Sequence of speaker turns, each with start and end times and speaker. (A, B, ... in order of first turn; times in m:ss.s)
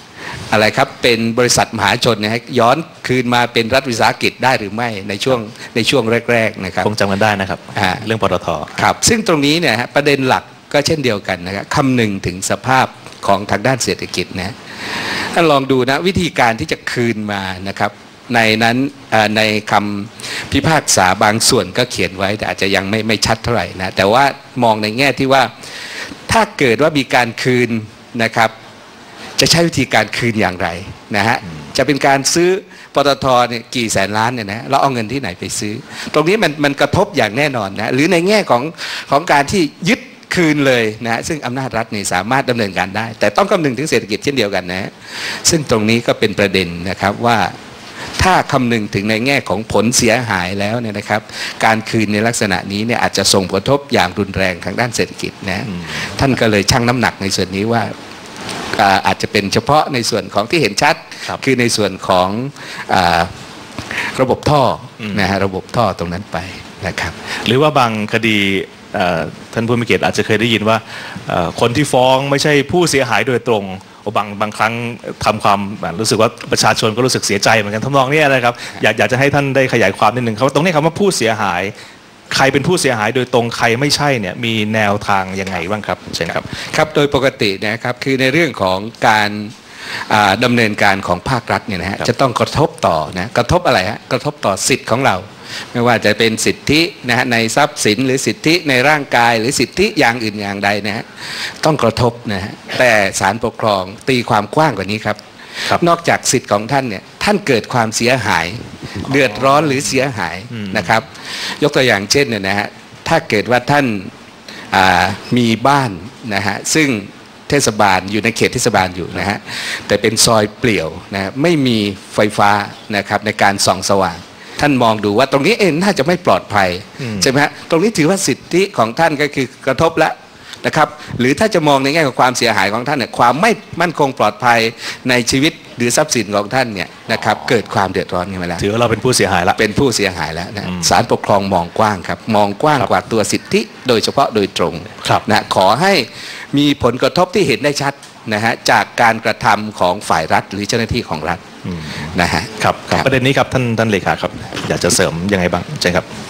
0:00.5-0:06.9 A
0:06.8-0:08.8 B
0:07.7-0:08.0 A
0:08.8-0:25.5 A
0:26.3-0:28.5 A
0:29.4-0:47.5 A
0:48.2-0:57.9 A
0:55.7-0:56.1 B
0:58.7-1:03.3 A
1:03.9-1:07.2 A
1:05.0-1:05.3 B
1:07.4-1:21.7 B
1:22.3-1:26.4 B
1:26.3-1:29.5 A
1:30.1-1:54.1 A
1:49.1-1:49.5 B
1:50.5-1:51.0 B
1:54.7-2:18.6 A
2:07.0-2:07.3 B
2:18.6-2:19.6 B
2:19.6-2:31.4 A
2:31.6-2:36.1 B
2:32.1-2:33.1 A